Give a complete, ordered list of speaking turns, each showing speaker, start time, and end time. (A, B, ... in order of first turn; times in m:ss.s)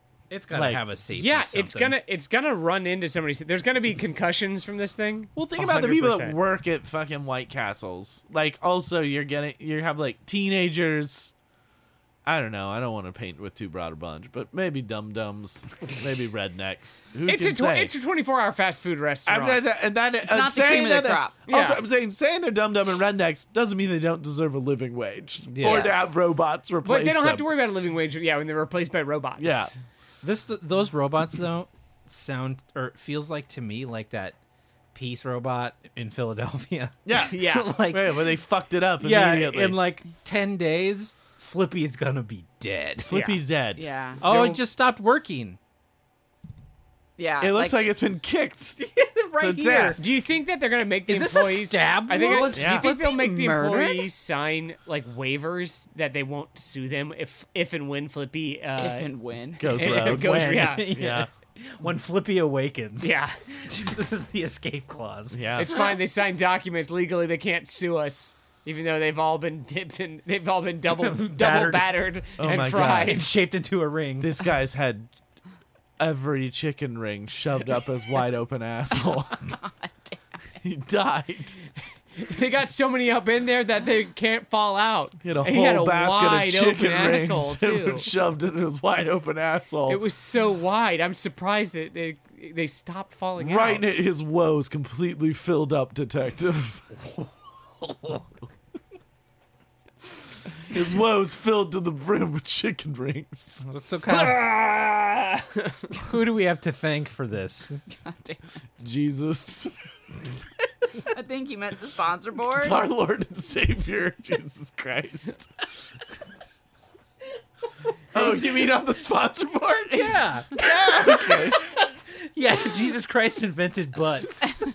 0:00.3-0:02.0 A
0:00.5-0:00.8 B
0:01.1-0:06.4 C
0:05.3-0:11.3 B
0:12.2-0:17.9 B
0:17.3-0:19.6 C
0:19.3-0:27.4 B
0:20.2-0:21.3 D
0:21.5-0:21.8 C
0:25.5-0:25.9 A
0:25.6-0:26.1 D
0:26.8-0:29.8 C
0:29.4-0:29.7 B
0:30.2-0:34.4 A
0:34.9-0:38.2 A
0:37.0-0:39.8 B
0:37.3-0:37.7 C
0:39.0-0:43.2 A
0:43.1-0:44.6 B
0:43.1-0:43.4 C
0:43.8-0:44.2 D
0:44.2-0:45.6 A
0:44.2-0:44.6 C
0:47.2-0:47.8 D
0:47.4-0:48.8 B
0:48.8-0:50.0 A
0:49.4-0:50.0 B
0:50.0-0:59.1 C
0:51.1-0:52.6 A
0:52.2-0:54.1 D
0:52.5-0:52.9 B
0:58.8-0:59.7 D
0:59.6-1:01.3 B
0:59.8-1:00.9 C
0:59.8-1:05.5 A
1:03.0-1:03.4 C
1:05.3-1:05.7 B
1:05.6-1:13.3 C
1:11.0-1:14.4 A
1:12.4-1:13.2 B
1:14.2-1:15.1 B
1:16.0-1:19.6 B
1:19.6-1:20.2 D
1:20.6-1:21.6 B
1:22.2-1:28.1 C
1:25.2-1:30.0 B
1:29.8-1:33.8 C
1:33.4-1:37.0 B
1:37.9-1:38.2 A
1:40.7-1:43.6 B
1:43.6-1:47.8 A
1:48.0-1:48.4 D
1:48.8-1:49.7 B
1:51.1-1:52.8 D
1:52.6-1:55.5 B
1:58.1-2:01.6 B
1:59.9-2:04.5 A